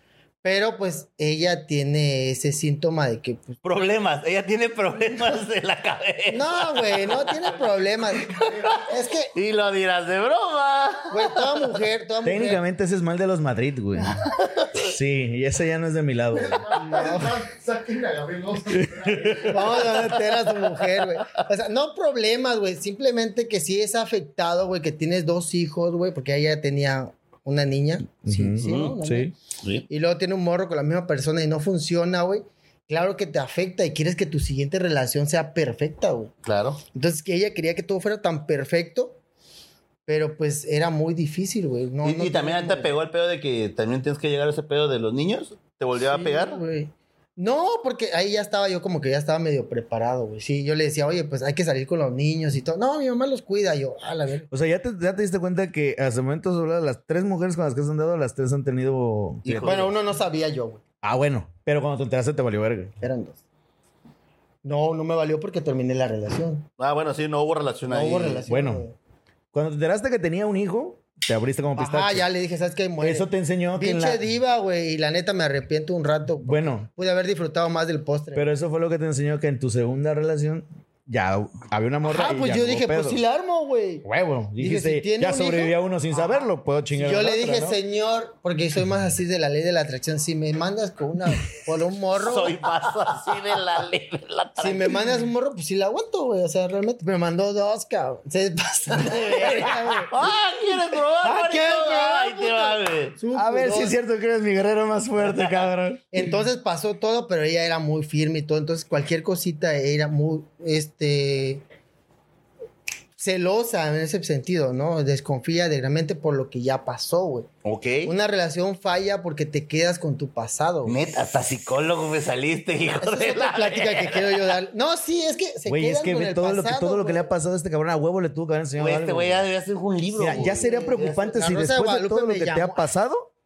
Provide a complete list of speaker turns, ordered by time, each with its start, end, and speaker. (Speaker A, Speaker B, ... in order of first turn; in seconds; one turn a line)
Speaker A: 0.4-3.6
Speaker B: 3.6-7.6
Speaker A: 6.3-9.3
Speaker B: 8.1-11.8
Speaker A: 11.1-12.6
Speaker C: 12.2-16.9
Speaker B: 14.2-14.9
Speaker D: 16.5-19.5
Speaker A: 16.7-17.4
Speaker C: 18.7-19.6
Speaker A: 19.4-29.3
Speaker B: 19.9-20.4
Speaker C: 28.2-29.3
Speaker B: 28.6-28.9
Speaker B: 29.6-29.9
Speaker A: 29.9-36.3
Speaker B: 36.5-36.8
Speaker A: 36.9-39.2
Speaker A: 40.1-42.9
Speaker B: 42.0-46.6
Speaker A: 46.0-54.5
Speaker C: 54.5-59.8
Speaker B: 59.5-59.9
Speaker A: 59.6-60.8
Speaker C: 61.0-62.9
Speaker A: 63.0-63.4
Speaker A: 64.6-66.7
Speaker B: 66.8-68.5
Speaker A: 67.9-69.0
Speaker C: 68.5-68.8
Speaker C: 69.5-72.3
Speaker A: 71.8-78.5
Speaker C: 73.0-74.2
Speaker C: 76.4-76.9
Speaker C: 78.3-83.2
Speaker A: 82.0-84.0
Speaker C: 84.0-87.8
Speaker A: 84.6-92.6
Speaker B: 92.1-95.1
Speaker A: 94.6-100.3
Speaker B: 99.0-103.2
Speaker A: 101.2-104.0
Speaker C: 103.3-106.0
Speaker B: 105.2-105.6
Speaker A: 106.1-111.6
Speaker A: 113.2-117.5
Speaker B: 117.6-118.1
Speaker A: 118.0-121.0
Speaker B: 120.9-124.6
Speaker A: 123.0-127.3
Speaker C: 125.7-129.4
Speaker B: 128.8-131.1
Speaker C: 130.1-133.3
Speaker A: 130.3-132.9